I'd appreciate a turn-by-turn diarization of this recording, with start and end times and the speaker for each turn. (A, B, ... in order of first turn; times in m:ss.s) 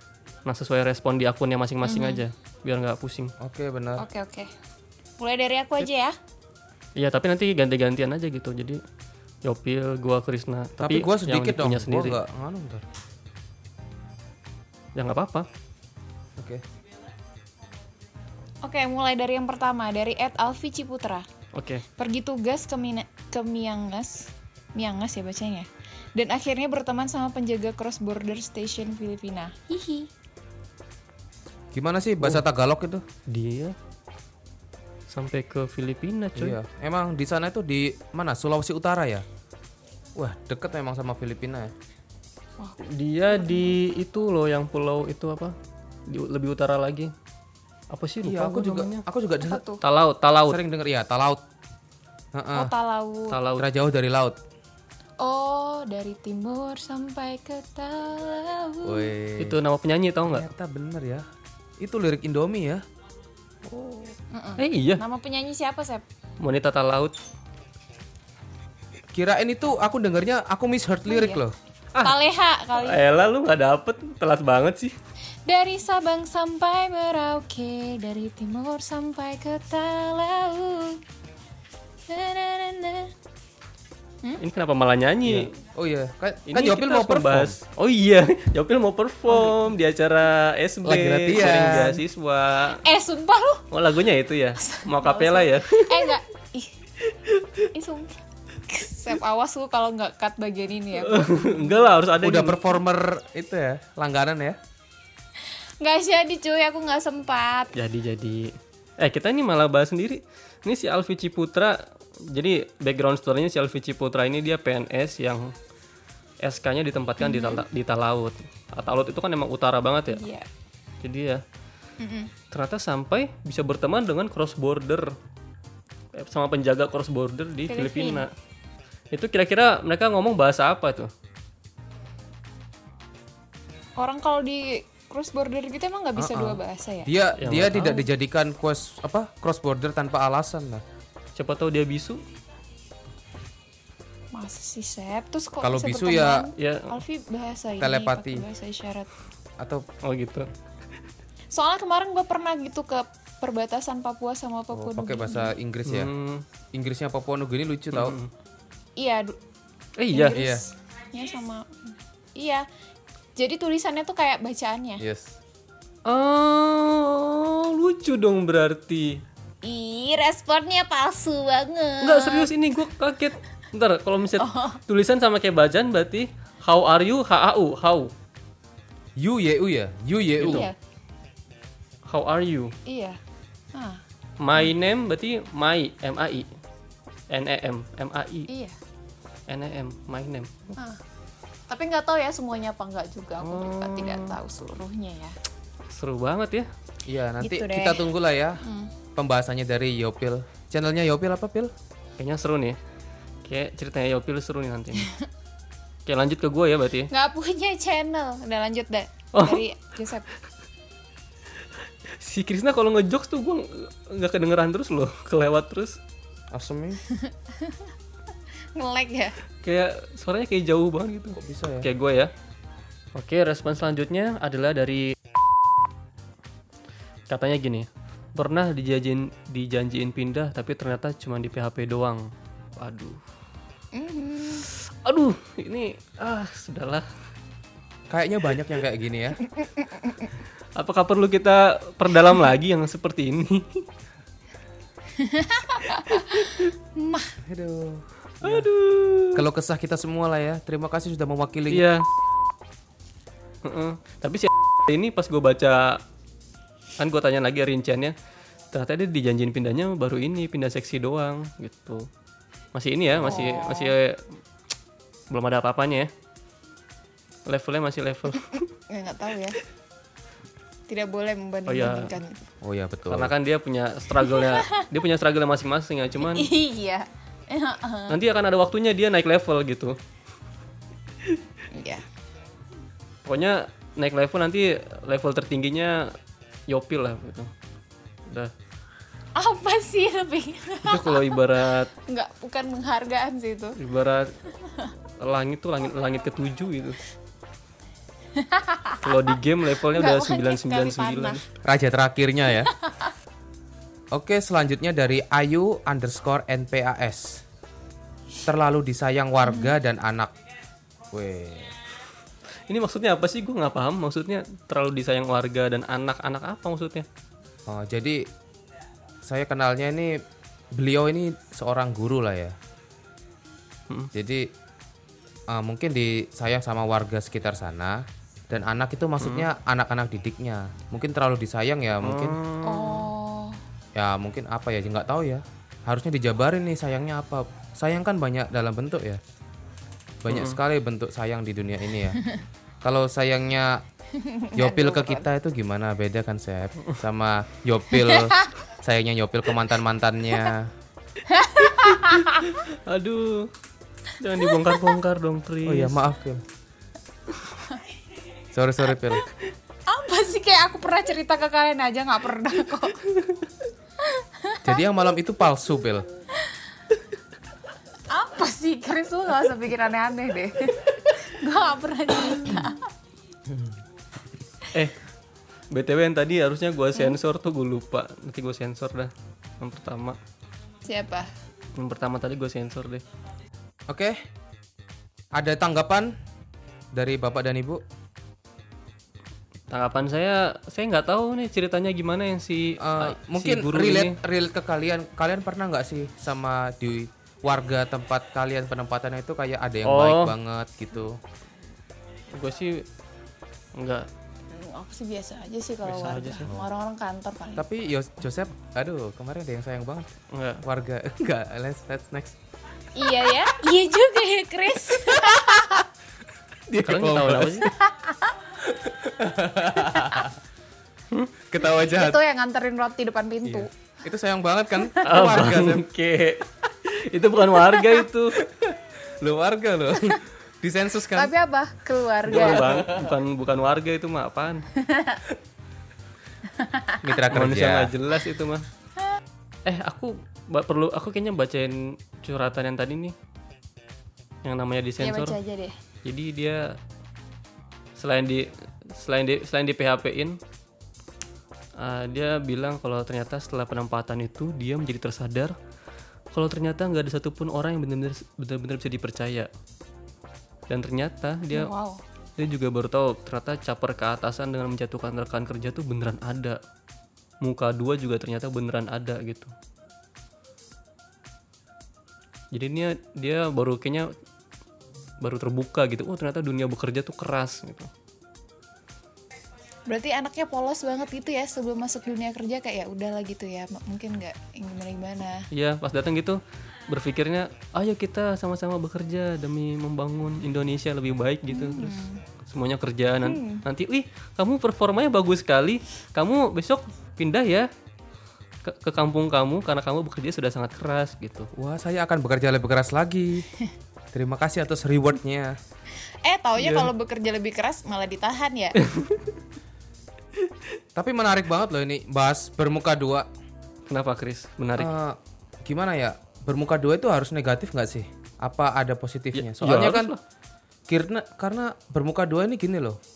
0:00.4-0:03.3 A
0:01.8-0:02.2 B
0:03.4-0:04.0 C
0:04.0-0:04.5 B
0:05.2-0:06.2 B
0:07.0-0:08.8 A
0:09.4-0:12.2 A
0:10.8-0:12.8 C
0:14.9-0:15.5 A
0:16.4-0:16.6 C
0:18.6-0:21.3 B
0:21.5-0:21.8 A
0:22.0-0:30.1 B
0:31.7-0:33.0 C
0:33.3-0:33.7 A
0:35.1-0:36.6 A
0:36.4-0:39.2 C
0:40.2-0:41.7 C
0:42.8-0:45.5 A
0:43.3-0:43.8 B
0:46.0-0:47.1 A
0:47.9-0:49.0 A
0:48.2-0:49.6 C
0:49.4-0:49.8 B
0:49.8-0:50.6 A
0:50.5-0:51.4 C
0:52.3-0:52.7 C
0:52.5-0:53.4 B
0:53.3-0:53.6 A
0:53.6-0:54.4 C
0:55.2-0:59.1 B
0:58.8-0:59.6 C
0:59.4-1:00.5 A
1:00.3-1:01.2 C
1:01.8-1:02.8 C
1:04.3-1:06.0 B
1:04.6-1:05.0 A
1:06.4-1:07.1 A
1:09.1-1:11.6 C
1:11.1-1:11.4 B
1:12.0-1:13.0 B
1:12.8-1:15.0 A
1:15.4-1:21.0 B
1:22.1-1:23.1 B
1:24.4-1:25.5 A
1:25.2-1:27.6 C
1:26.5-1:32.8 A
1:29.3-1:29.6 B
1:30.8-1:32.0 C
1:32.8-1:33.7 B
1:33.7-1:36.2 A
1:34.6-1:36.7 B
1:37.7-1:41.7 B
1:41.0-1:42.6 A
1:42.2-1:44.6 C
1:45.8-1:47.7 B
1:47.7-1:55.5 A
1:56.4-2:00.2 A
1:57.2-1:57.6 B
2:00.1-2:00.5 B
2:01.0-2:01.4 A
2:02.0-2:02.3 B
2:02.5-2:05.1 A
2:06.1-2:08.3 A
2:07.7-2:08.2 B
2:09.1-2:11.1 A
2:14.0-2:17.1 B
2:16.2-2:20.8 C
2:17.4-2:18.0 A
2:21.4-2:22.2 A
2:24.3-2:29.1 B
2:25.6-2:26.5 C
2:26.6-2:27.0 A
2:27.8-2:28.4 C
2:29.6-2:29.8 C
2:30.0-2:30.5 A
2:31.5-2:35.5 B
2:34.7-2:36.1 C
2:35.8-2:36.4 A
2:36.7-2:38.2 C
2:37.9-2:38.3 A
2:39.0-2:39.4 B
2:40.0-2:40.4 A
2:40.1-2:42.6 B
2:40.3-2:40.6 C
2:43.4-2:45.0 B
2:45.0-2:45.4 C
2:46.0-2:49.2 A
2:49.6-2:52.5 B
2:52.0-2:58.1 A
2:54.4-2:54.8 B
2:59.2-3:00.7 C
3:00.4-3:00.7 A
3:00.4-3:00.7 B
3:02.1-3:02.7 A
3:02.8-3:03.2 B
3:03.7-3:04.0 B
3:04.4-3:06.5 A
3:07.3-3:08.5 A
3:08.5-3:08.8 B
3:09.5-3:10.7 A
3:11.7-3:15.3 B
3:13.4-3:14.4 A
3:15.9-3:16.7 A
3:17.0-3:18.6 C
3:17.4-3:18.9 B
3:19.1-3:21.7 C
3:22.2-3:22.8 A
3:23.4-3:25.1 A
3:26.0-3:27.1 A
3:27.1-3:30.2 B
3:29.3-3:29.6 A
3:32.2-3:36.0 A
3:36.5-3:37.0 C
3:37.1-3:37.9 B
3:38.7-3:39.4 B
3:39.6-3:42.3 A
3:41.4-3:41.9 C
3:43.1-3:45.1 A
3:47.3-3:53.2 A
3:53.9-3:54.6 B
3:54.6-3:57.0 A
3:58.1-3:59.4 C
3:59.5-4:00.3 B
4:00.8-4:03.9 A
4:05.2-4:07.4 B
4:07.4-4:08.7 C
4:08.4-4:09.4 A
4:09.3-4:11.9 C
4:11.7-4:12.1 A
4:13.6-4:16.0 A
4:17.0-4:18.1 A
4:18.7-4:22.1 A
4:22.7-4:24.2 A
4:23.2-4:23.9 B
4:25.3-4:26.1 A
4:27.4-4:28.6 A
4:28.9-4:29.6 B
4:30.9-4:32.4 B
4:31.7-4:32.1 A
4:32.6-4:33.3 C
4:33.1-4:36.5 A
4:34.3-4:34.8 B
4:36.2-4:38.2 B
4:38.1-4:40.0 A
4:41.7-4:42.0 B
4:43.2-4:46.1 A
4:46.7-4:47.5 A
4:48.3-4:48.5 A
4:49.4-4:51.4 B
4:50.8-4:51.9 A
4:52.0-4:53.8 B
4:53.8-4:54.4 A
4:55.2-4:57.0 A
4:58.3-5:01.4 B
4:59.0-5:01.4 A
5:01.6-5:02.7 C
5:02.6-5:03.1 B
5:04.1-5:07.4 C
5:08.4-5:10.3 C
5:09.4-5:09.7 B
5:11.1-5:11.7 C
5:12.7-5:17.0 A
5:17.7-5:18.3 C
5:19.2-5:20.2 C
5:20.7-5:22.6 C
5:24.1-5:24.5 C
5:25.5-5:32.4 C
5:29.2-5:29.5 A
5:32.0-5:33.1 A
5:32.6-5:33.6 B
5:33.9-5:39.2 C
5:40.2-5:42.2 C
5:40.3-5:40.6 A
5:42.8-5:43.8 C
5:44.1-5:45.3 B
5:44.6-5:50.7 C
5:48.0-5:48.5 B
5:51.2-5:52.6 B
5:51.8-5:53.5 A
5:54.2-5:56.0 A
5:54.5-5:55.0 B
5:55.6-5:56.4 C
5:58.5-5:59.2 C
5:59.9-6:03.0 B
6:04.0-6:04.8 B
6:04.6-6:06.1 C
6:08.1-6:12.9 B
6:15.7-6:20.2 A
6:20.8-6:21.3 B
6:21.8-6:23.0 A
6:23.9-6:24.2 C
6:25.3-6:26.1 C
6:26.9-6:27.8 C
6:29.7-6:34.2 A
6:32.8-6:41.2 C
6:39.8-6:40.3 A
6:42.3-6:42.8 A
6:43.8-6:44.1 A
6:44.5-6:47.6 B
6:45.8-6:46.6 A
6:47.6-6:50.1 C
6:50.3-6:50.6 A
6:50.6-6:52.4 C
6:52.9-6:55.8 B
6:56.7-6:57.7 A
6:56.7-6:57.7 C
6:57.7-6:58.3 B
6:58.6-7:00.4 C
7:01.5-7:02.2 C
7:01.8-7:03.7 B
7:03.4-7:05.8 C
7:04.8-7:05.3 B
7:05.0-7:08.4 A
7:08.4-7:11.3 C
7:11.1-7:12.8 B
7:12.3-7:14.7 A
7:12.3-7:13.1 C
7:14.8-7:15.2 B
7:16.5-7:17.0 B
7:17.0-7:17.9 C
7:17.3-7:18.6 A
7:19.6-7:23.1 A
7:24.4-7:25.4 A
7:25.0-7:25.8 B
7:26.0-7:26.7 A
7:28.0-7:30.4 A
7:31.8-7:35.5 A
7:36.3-7:39.5 A
7:40.7-7:41.7 A
7:41.5-7:42.0 B
7:42.4-7:46.6 A
7:47.4-7:49.5 A
7:52.5-7:54.1 A
7:55.2-7:57.9 A
7:59.9-8:05.5 B
8:05.5-8:17.7 A
8:11.5-8:12.2 B
8:13.2-8:13.6 B
8:18.6-8:21.5 A
8:21.5-8:23.5 C
8:24.1-8:25.6 C
8:26.2-8:28.8 B
8:28.8-8:29.3 A
8:31.0-8:33.3 C
8:33.9-8:34.9 A
8:34.8-8:40.1 C
8:39.3-8:40.2 A
8:40.9-8:43.0 C